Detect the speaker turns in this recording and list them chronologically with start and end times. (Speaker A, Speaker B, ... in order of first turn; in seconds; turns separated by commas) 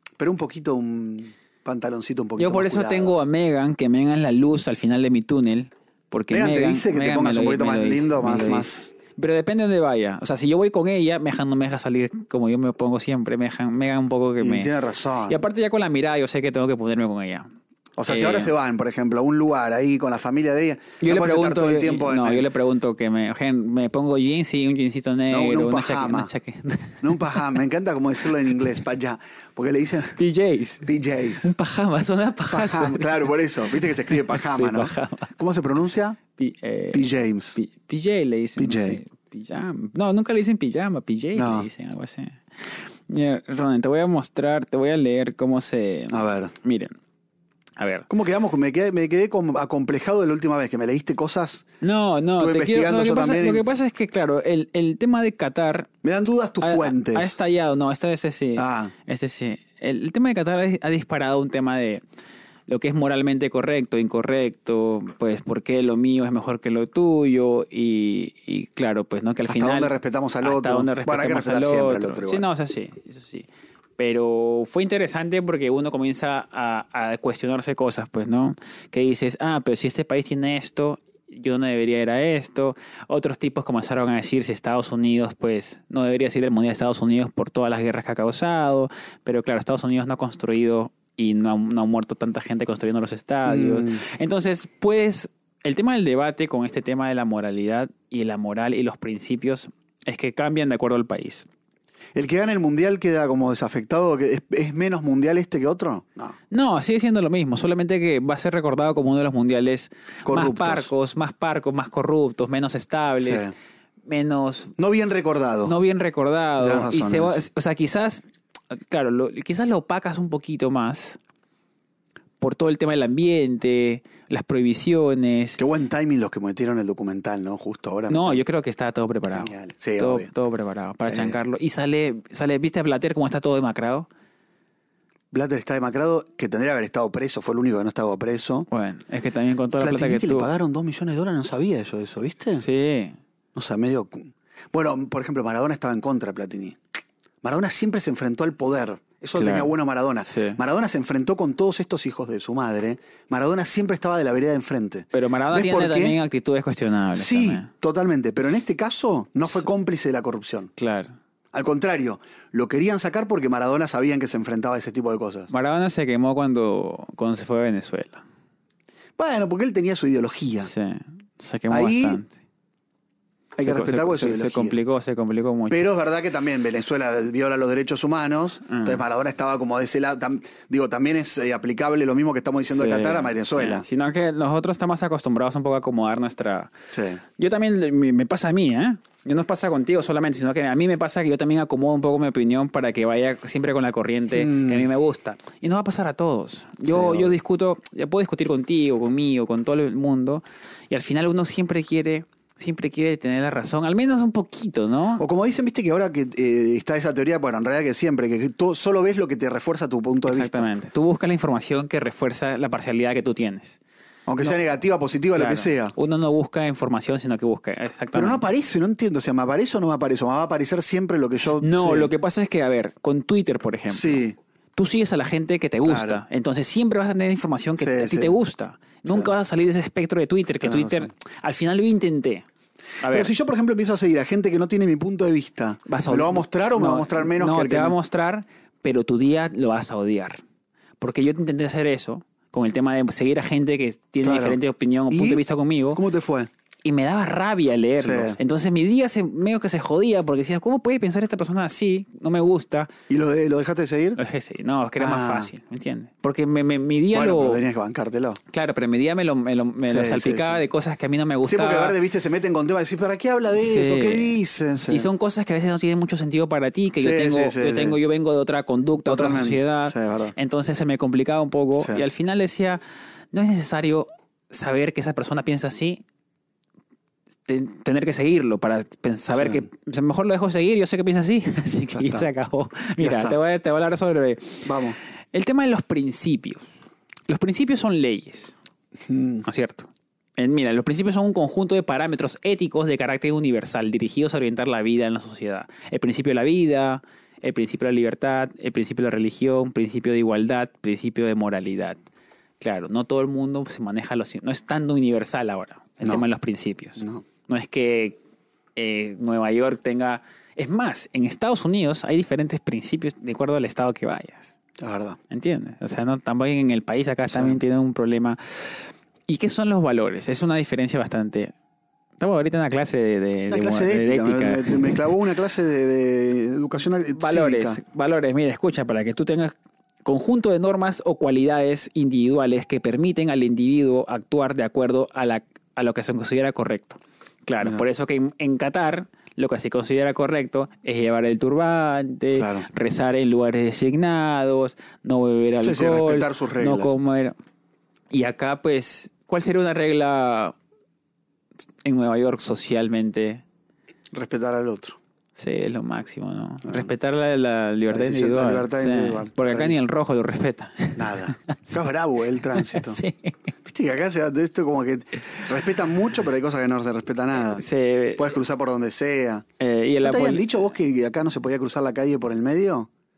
Speaker A: 0.2-3.1, Speaker B: 2.4-14.7, Speaker A: 6.3-8.9, Speaker A: 14.4-15.4, Speaker B: 15.3-17.5, Speaker A: 18.0-22.4, Speaker B: 18.1-18.5, Speaker B: 21.0-27.5, Speaker A: 25.3-26.3, Speaker A: 27.0-30.2, Speaker B: 30.1-35.3, Speaker A: 30.8-31.5, Speaker A: 32.5-36.2, Speaker B: 36.4-46.9, Speaker A: 36.9-37.6, Speaker A: 38.6-39.0, Speaker A: 41.4-41.7, Speaker A: 46.1-46.5, Speaker B: 47.8-48.1, Speaker A: 48.1-51.6, Speaker B: 51.8-55.9, Speaker A: 52.4-53.6, Speaker A: 56.0-57.3, Speaker B: 56.6-62.0, Speaker A: 58.6-58.9, Speaker B: 62.7-73.5, Speaker A: 69.5-72.4, Speaker B: 74.0-101.5, Speaker A: 93.5-94.0, Speaker A: 102.1-106.4, Speaker B: 106.5-113.5, Speaker A: 110.2-110.9, Speaker A: 113.2-113.5, Speaker B: 114.1-114.7, Speaker A: 114.8-115.7, Speaker B: 115.6-121.2, Speaker A: 116.6-117.5, Speaker B: 122.4-125.6, Speaker A: 125.6-128.4, Speaker B: 128.1-134.1, Speaker A: 129.3-130.3, Speaker A: 131.1-131.4, Speaker A: 135.3-138.7, Speaker B: 138.7-140.5, Speaker A: 139.8-142.6, Speaker B: 142.6-143.2, Speaker A: 143.5-146.8, Speaker A: 147.4-156.2, Speaker B: 149.3-149.7, Speaker B: 150.2-150.6, Speaker B: 155.1-157.7, Speaker A: 157.1-160.7, Speaker B: 160.8-161.2, Speaker A: 161.5-165.5, Speaker B: 165.5-168.2, Speaker A: 169.2-170.7, Speaker B: 170.6-172.3, Speaker A: 171.7-172.2, Speaker A: 173.6-174.8, Speaker B: 173.6-175.8, Speaker A: 175.7-183.8, Speaker B: 178.7-179.0, Speaker B: 182.7-186.7, Speaker A: 186.9-187.2, Speaker B: 187.4-205.2, Speaker A: 194.3-194.9, Speaker A: 196.9-197.4, Speaker A: 205.2-210.7, Speaker B: 210.2-213.8, Speaker A: 214.3-215.9, Speaker B: 215.3-218.4, Speaker A: 218.1-222.1, Speaker B: 221.6-224.2, Speaker A: 223.9-224.3, Speaker B: 224.8-232.4, Speaker A: 225.8-226.2, Speaker A: 227.8-228.3, Speaker A: 230.6-231.1, Speaker B: 233.0-233.3, Speaker A: 233.0-237.9, Speaker B: 235.9-240.4, Speaker B: 241.0-246.0, Speaker A: 244.2-244.6, Speaker A: 245.1-245.4, Speaker A: 245.9-246.5, Speaker B: 246.8-252.9, Speaker A: 248.0-248.4, Speaker A: 253.1-254.2, Speaker B: 254.2-257.6, Speaker A: 255.0-255.5, Speaker A: 257.1-258.4, Speaker B: 258.5-261.9, Speaker A: 259.9-260.6, Speaker A: 261.4-265.1, Speaker B: 263.5-272.8, Speaker A: 267.0-268.0, Speaker A: 269.0-270.3, Speaker B: 273.3-276.0, Speaker B: 277.5-284.7, Speaker A: 279.4-279.6, Speaker A: 281.9-282.3, Speaker A: 283.0-283.4, Speaker A: 284.6-285.0, Speaker B: 285.3-286.7, Speaker B: 287.3-288.6, Speaker A: 289.0-289.4, Speaker B: 289.4-302.0, Speaker B: 302.6-308.2, Speaker A: 307.0-307.2, Speaker B: 308.8-314.5, Speaker A: 314.8-315.2, Speaker B: 315.3-321.5, Speaker A: 317.3-317.6, Speaker B: 322.2-325.1, Speaker A: 323.5-327.8, Speaker B: 327.1-329.5, Speaker B: 330.0-347.3, Speaker A: 337.6-337.8, Speaker A: 342.3-342.7, Speaker A: 345.6-346.9, Speaker B: 348.1-350.6, Speaker B: 351.8-353.4, Speaker A: 354.1-355.0, Speaker B: 355.4-361.7, Speaker A: 356.6-356.9, Speaker A: 357.9-359.8, Speaker A: 360.9-363.0, Speaker B: 362.5-363.3, Speaker A: 363.6-367.6, Speaker B: 367.6-368.4, Speaker A: 368.1-369.4, Speaker B: 369.6-370.4, Speaker A: 370.0-372.9